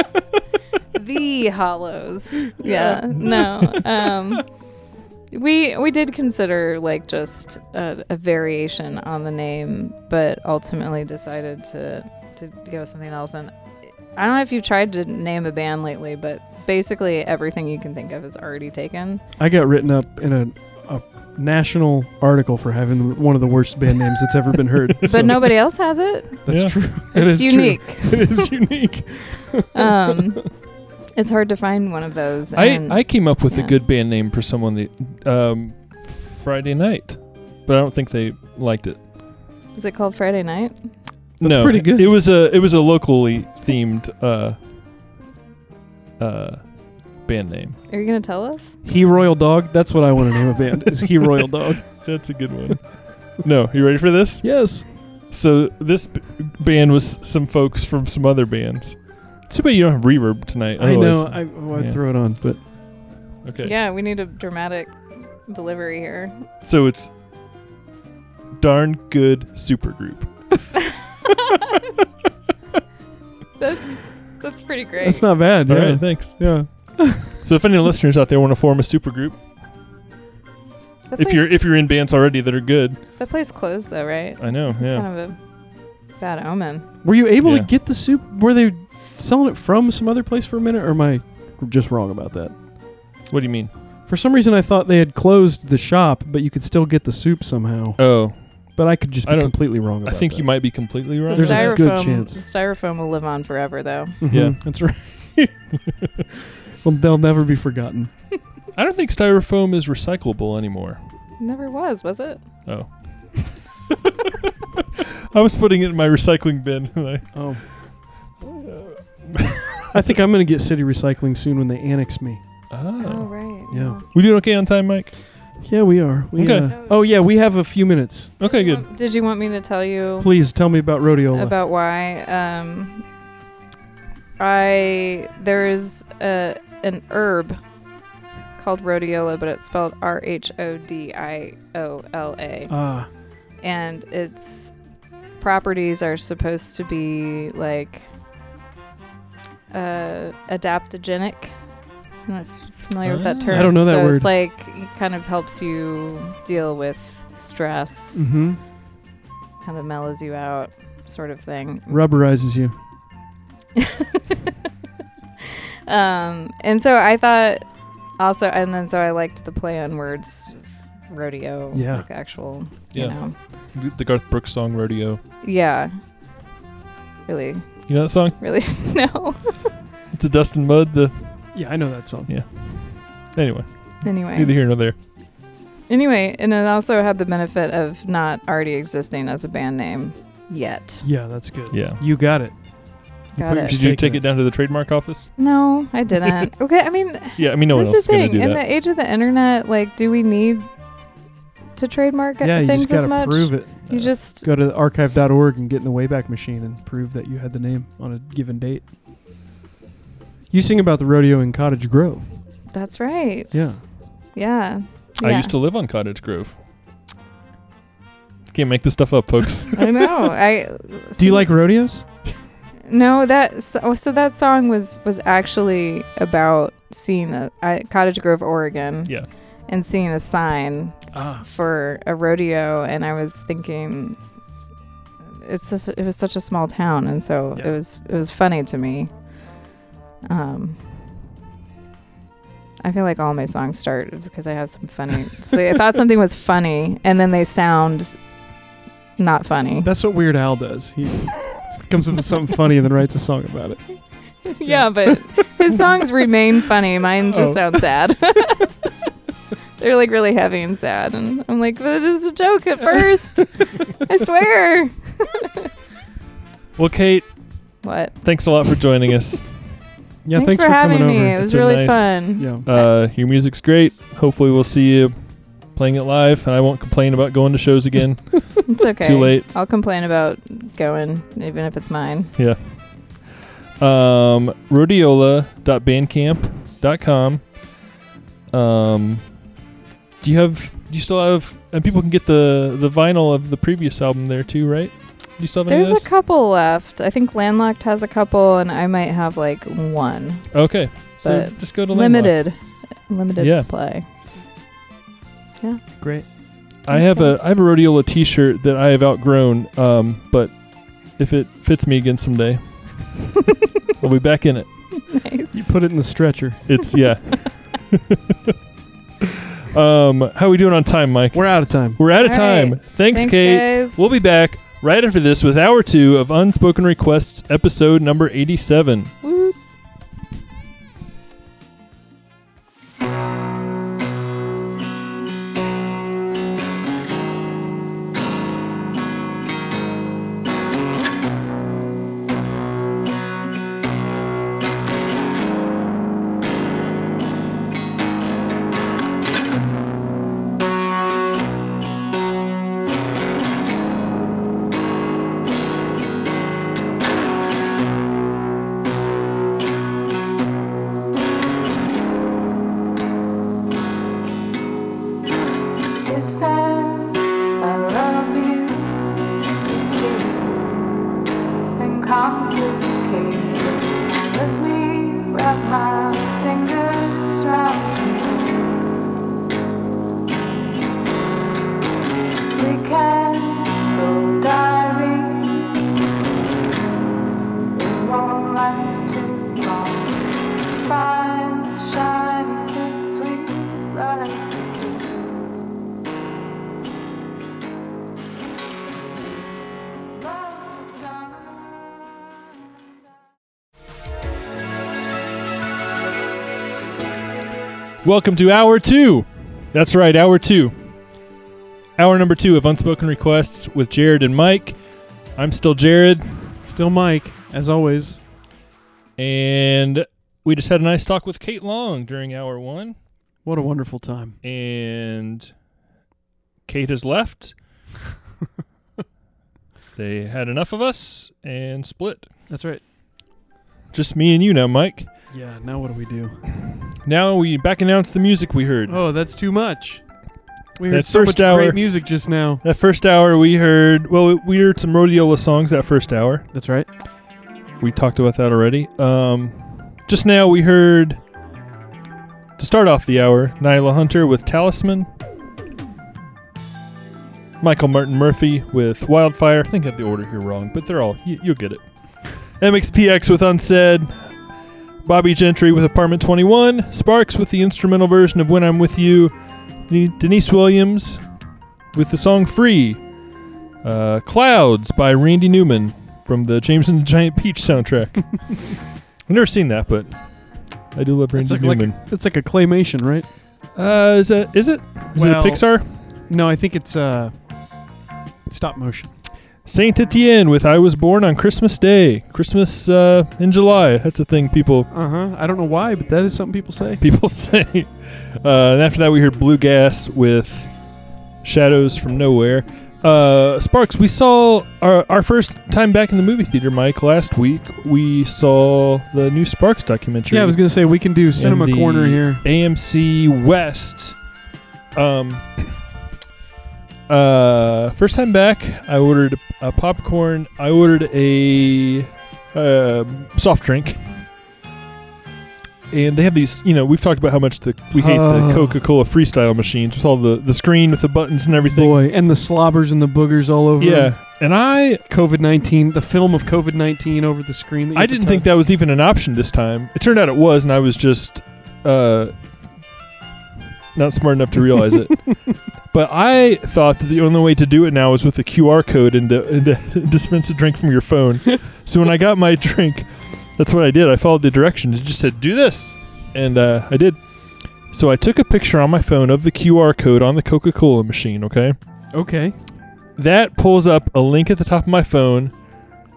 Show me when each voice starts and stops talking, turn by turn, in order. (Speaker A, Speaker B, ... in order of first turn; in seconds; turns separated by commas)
Speaker A: 0.9-4.7, Speaker B: 2.6-3.8, Speaker A: 5.3-19.2, Speaker B: 19.4-25.6, Speaker A: 25.1-28.5, Speaker B: 26.4-30.2, Speaker C: 26.5-26.8, Speaker A: 29.7-33.7, Speaker C: 32.5-39.0, Speaker A: 39.7-40.7, Speaker B: 41.4-42.2, Speaker C: 41.4-44.6, Speaker C: 46.2-47.8, Speaker A: 47.9-48.8, Speaker B: 48.8-52.0, Speaker C: 51.8-62.0, Speaker B: 54.4-54.9, Speaker B: 60.8-62.6, Speaker C: 63.4-63.7, Speaker A: 63.6-66.4, Speaker C: 66.6-67.1, Speaker C: 68.6-70.5, Speaker A: 73.6-75.3, Speaker B: 75.0-77.4, Speaker C: 75.7-76.7, Speaker C: 77.3-79.4, Speaker A: 81.1-81.5, Speaker C: 81.2-83.0, Speaker A: 83.2-85.4, Speaker C: 84.4-85.0, Speaker A: 86.2-86.9, Speaker B: 87.0-92.5, Speaker C: 87.4-87.7, Speaker C: 93.3-93.7, Speaker B: 94.1-102.4, Speaker C: 98.0-98.4, Speaker C: 99.2-101.8, Speaker A: 101.3-104.2, Speaker B: 104.2-105.5, Speaker C: 104.3-104.6, Speaker B: 106.8-108.1, Speaker C: 108.7-111.0, Speaker A: 111.4-112.5, Speaker C: 112.7-113.6, Speaker C: 114.4-117.3, Speaker B: 117.3-117.6, Speaker C: 118.4-120.0, Speaker B: 119.9-122.4, Speaker C: 122.7-123.3, Speaker A: 123.0-124.0, Speaker B: 123.7-124.0, Speaker C: 124.1-125.2, Speaker B: 125.6-128.3, Speaker C: 126.3-126.7, Speaker A: 126.7-127.0, Speaker C: 128.4-128.8, Speaker A: 128.4-130.3, Speaker B: 130.2-131.5, Speaker A: 131.3-133.0, Speaker A: 134.4-137.6, Speaker A: 138.6-142.7, Speaker B: 142.7-143.1, Speaker A: 143.6-144.7, Speaker A: 145.4-148.1, Speaker A: 149.7-151.6, Speaker A: 152.3-158.3, Speaker C: 153.0-153.8, Speaker B: 153.5-154.3, Speaker B: 158.1-158.6, Speaker A: 159.6-162.0, Speaker B: 161.9-162.7, Speaker A: 163.8-164.5, Speaker A: 165.9-167.7, Speaker A: 168.2-170.6, Speaker A: 171.1-173.3, Speaker B: 171.7-172.1, Speaker C: 173.7-175.2, Speaker A: 175.4-175.9, Speaker A: 177.3-179.7, Speaker C: 177.9-178.4, Speaker C: 180.1-181.6, Speaker B: 181.5-182.3, Speaker C: 182.3-184.9, Speaker A: 184.0-184.6, Speaker A: 185.9-191.1, Speaker B: 191.0-194.2, Speaker C: 191.7-192.0, Speaker A: 193.4-193.8, Speaker C: 193.7-195.3, Speaker A: 195.4-200.7, Speaker C: 197.4-198.6, Speaker A: 201.8-204.4, Speaker B: 202.4-208.9, Speaker B: 210.5-212.3, Speaker A: 212.7-213.7, Speaker B: 213.5-213.8, Speaker A: 214.3-215.5, Speaker C: 215.2-216.6, Speaker C: 218.5-220.1, Speaker A: 219.7-221.5, Speaker B: 221.2-222.1, Speaker A: 222.9-229.2, Speaker A: 229.7-234.2, Speaker B: 231.1-231.4, Speaker A: 235.4-239.1, Speaker A: 240.3-240.8, Speaker A: 242.8-248.2, Speaker A: 249.2-249.9, Speaker B: 249.8-254.0, Speaker A: 254.4-258.7, Speaker B: 254.6-255.2, Speaker B: 257.3-257.8, Speaker A: 259.8-265.7, Speaker C: 266.8-267.3, Speaker A: 267.8-268.1, Speaker C: 268.2-269.5, Speaker B: 270.2-272.6, Speaker A: 270.3-272.9, Speaker C: 271.4-272.1, Speaker C: 272.6-275.1, Speaker C: 275.7-279.5, Speaker A: 278.7-282.3, Speaker C: 282.4-283.3, Speaker C: 283.8-287.4, Speaker C: 288.5-289.2, Speaker C: 290.2-296.1, Speaker A: 295.7-300.5, Speaker C: 300.5-302.4, Speaker A: 301.2-304.1, Speaker C: 303.4-303.7, Speaker B: 306.0-306.3, Speaker C: 306.8-310.6, Speaker A: 306.9-307.4, Speaker C: 311.1-313.2, Speaker C: 314.0-314.7, Speaker A: 315.1-315.7, Speaker B: 315.5-316.8, Speaker C: 316.7-318.5, Speaker C: 319.2-329.1, Speaker B: 321.3-322.0, Speaker A: 322.1-324.2, Speaker A: 329.2-329.6, Speaker D: 366.1-370.7, Speaker D: 371.7-379.1, Speaker D: 382.5-385.9, Speaker D: 387.7-395.6, Speaker D: 399.9-401.8, Speaker C: 408.0-410.8, Speaker C: 412.0-414.8, Speaker C: 415.4-416.5, Speaker B: 416.6-418.2, Speaker C: 419.2-422.9, Speaker B: 423.4-424.4, Speaker C: 424.4-425.5, Speaker C: 426.7-427.6, Speaker C: 429.9-432.3, Speaker B: 432.5-432.8, Speaker C: 433.9-435.1, Speaker B: 435.3-436.4, Speaker C: 436.9-439.0, Speaker B: 438.9-440.0, Speaker B: 440.8-442.6, Speaker C: 440.9-441.9, Speaker C: 442.6-446.4, Speaker B: 446.5-446.9, Speaker C: 447.8-451.2, Speaker C: 452.6-455.1, Speaker C: 457.6-461.8, Speaker C: 462.5-464.3, Speaker C: 465.1-469.3, Speaker C: 469.9-471.2, Speaker C: 471.9-473.0, Speaker C: 473.8-480.1, Speaker C: 480.9-482.0, Speaker B: 481.3-483.3, Speaker C: 483.7-485.9, Speaker B: 485.1-485.6, Speaker B: 486.3-487.3, Speaker B: 488.5-489.1, Speaker C: 489.7-494.9, Speaker B: 494.9-497.0, Speaker C: 497.0-500.7, Speaker C: 501.4-510.6, Speaker B: 510.3-512.5, Speaker C: 511.3-514.2, Speaker C: 515.0-515.8, Speaker C: 517.1-524.2, Speaker C: 525.9-532.0, Speaker B: 527.9-528.8, Speaker B: 531.7-534.3, Speaker C: 533.8-535.0, Speaker B: 535.1-538.5, Speaker C: 538.0-542.3, Speaker C: 544.0-545.3, Speaker C: 545.9-557.2, Speaker C: 557.9-561.7, Speaker B: 562.1-562.5, Speaker C: 563.2-565.5